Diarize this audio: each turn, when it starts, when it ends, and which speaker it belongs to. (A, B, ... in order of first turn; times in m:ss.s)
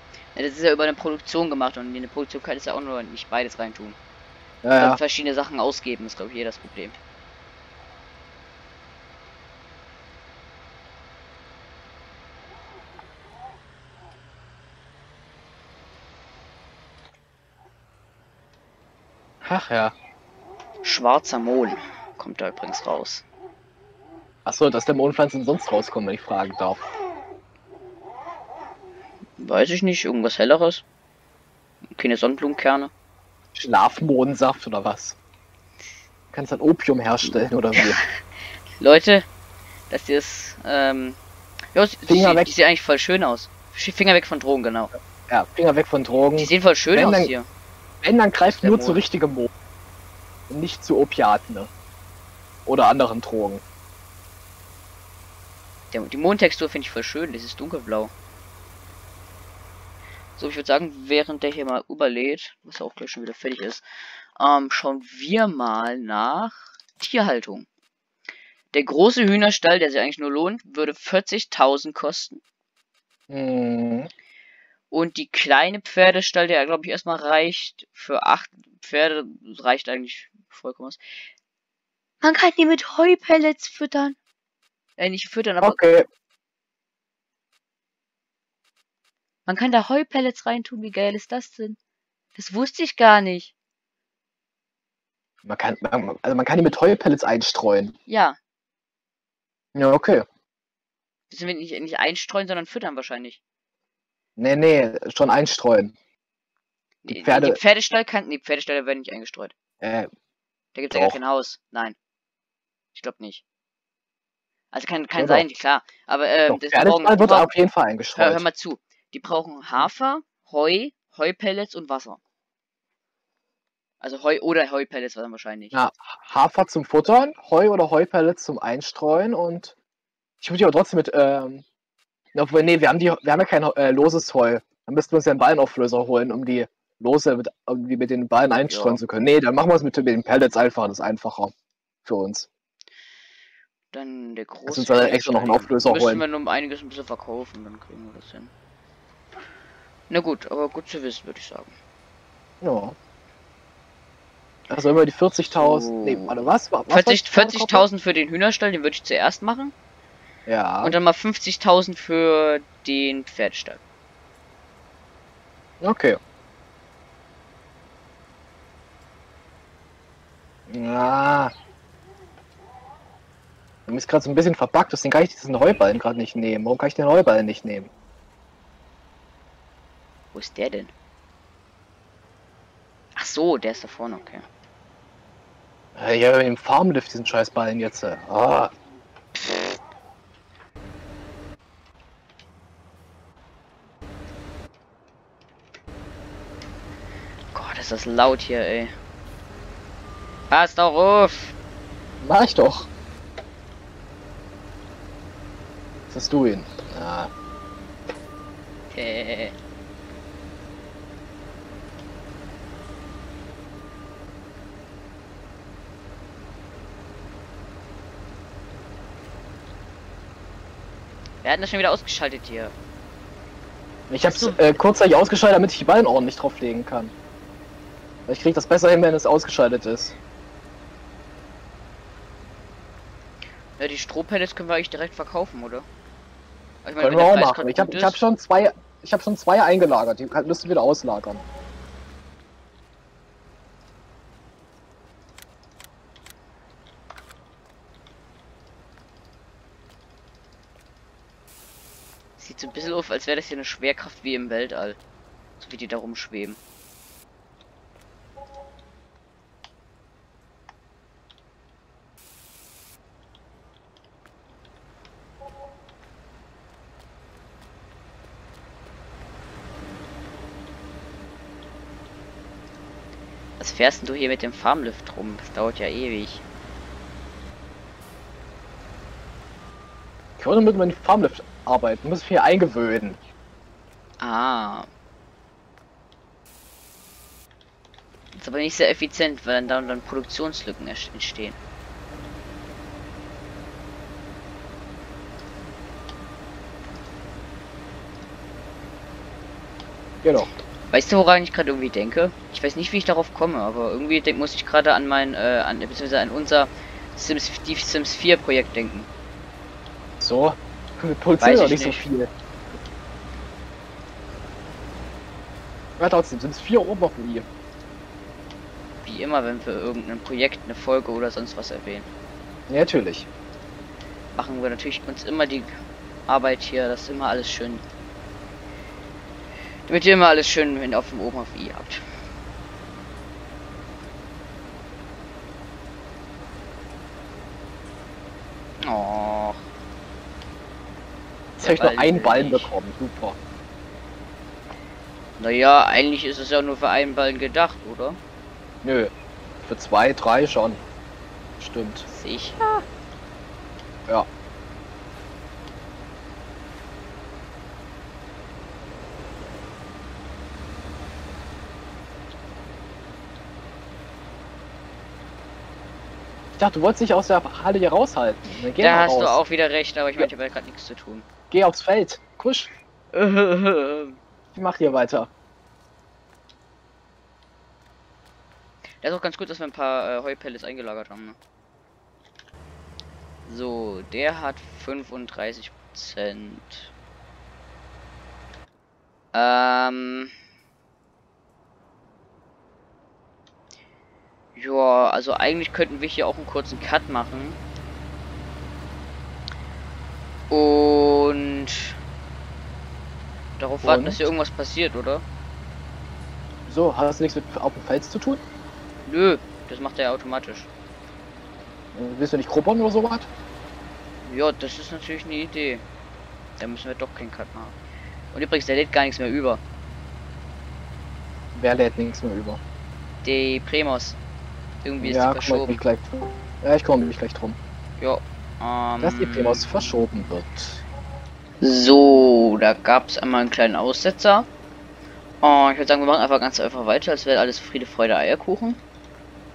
0:00.3-0:04.0 A
0:04.6-0:05.0 B
0:04.8-0:07.0 A
0:19.4-0:20.0 B
0:20.8-0:23.2 A
0:24.4-0:26.8 B
0:29.4-0:30.8 A
0:32.0-0:32.9 A
0:33.6-0:35.2 B
0:36.3-0:38.0 B
0:38.8-0:39.3 A
0:39.9-0:41.2 A
0:41.7-0:44.9 A
0:42.1-0:42.5 B
0:45.3-0:47.3 B
0:46.4-0:47.5 A
0:48.0-0:49.5 B
0:48.5-0:49.0 A
0:50.5-0:51.7 B
0:52.7-0:53.6 B
0:55.9-0:58.1 A
1:00.4-1:03.8 A
1:04.4-1:07.7 A
1:08.7-1:12.4 A
1:13.3-1:14.1 B
1:14.9-1:21.2 A
1:22.2-1:24.2 A
1:25.0-1:25.8 A
1:25.6-1:26.1 B
1:29.5-1:31.8 A
1:32.4-1:33.5 A
1:35.4-1:38.0 B
1:38.1-1:38.4 A
1:39.8-1:40.2 B
1:41.3-1:43.4 A
1:44.4-1:45.9 B
1:47.0-1:49.5 A
1:47.1-1:47.6 B
1:49.8-1:50.1 B
1:50.8-1:52.0 A
1:50.9-1:51.2 B
1:52.9-1:53.4 A
1:54.7-1:57.5 A
1:55.2-1:55.4 B
1:56.5-1:58.4 B
1:58.1-2:02.2 A
2:04.0-2:05.8 A
2:05.7-2:09.7 B
2:10.4-2:11.6 B
2:12.4-2:21.5 B
2:18.7-2:19.0 A
2:22.0-2:22.5 B
2:23.9-2:28.5 A
2:24.7-2:26.2 B
2:30.1-2:31.8 A
2:32.6-2:33.0 B
2:34.7-2:37.8 B
2:35.5-2:36.4 A
2:36.9-2:39.7 A
2:40.5-2:41.0 B
2:40.8-2:43.8 A
2:45.8-2:46.2 B
2:50.7-2:51.5 B
2:53.9-2:57.9 B
3:00.3-3:00.9 A
3:03.2-3:04.5 A
3:06.0-3:08.7 B
3:17.5-3:18.9 A
3:20.5-3:21.6 A
3:22.2-3:22.9 B
3:26.1-3:27.3 B
3:28.9-3:29.6 A
3:41.4-3:42.8 A
3:44.1-3:47.1 B
3:44.2-3:44.7 A
3:48.3-3:50.2 B
3:53.8-3:55.9 A
3:56.8-3:58.2 A
3:57.0-4:01.4 B
4:12.4-4:15.0 A
4:15.6-4:16.6 A
4:33.6-4:36.4 A
4:40.4-4:43.2 B
4:44.2-4:44.9 A
4:48.3-4:51.6 A
5:00.2-5:00.5 B
5:00.9-5:09.1 A
5:10.2-5:12.3 B
5:11.4-5:12.0 A
5:16.0-5:17.5 B
5:19.0-5:22.1 A
5:22.7-5:23.3 B
5:24.4-5:25.7 A
5:26.3-5:27.8 A
5:29.9-5:32.0 A
5:38.8-5:39.6 A
5:41.6-5:43.4 B
5:41.6-5:42.7 A
5:45.4-5:48.2 A
5:48.8-5:50.8 B
5:51.6-5:52.1 B
5:52.1-5:52.6 A
6:06.6-6:09.4 B
6:08.8-6:11.2 A
6:11.5-6:12.7 B
6:13.1-6:14.2 A
6:14.6-6:15.3 B
6:19.0-6:21.4 A
6:23.5-6:26.9 A
6:29.3-6:30.3 A
6:34.6-6:37.6 A
6:40.5-6:42.0 A
6:43.6-6:45.2 A
6:43.8-6:44.2 B
6:46.7-6:48.4 B
6:49.1-6:50.7 A
6:51.9-6:53.3 B
6:54.2-6:55.8 A
6:56.6-6:57.8 A
6:58.3-6:59.6 A
7:01.6-7:02.6 B
7:03.2-7:04.2 A
7:04.8-7:05.8 A
7:05.0-7:07.6 B
7:08.0-7:09.8 A
7:09.0-7:10.8 B
7:11.6-7:14.5 A
7:15.4-7:18.8 A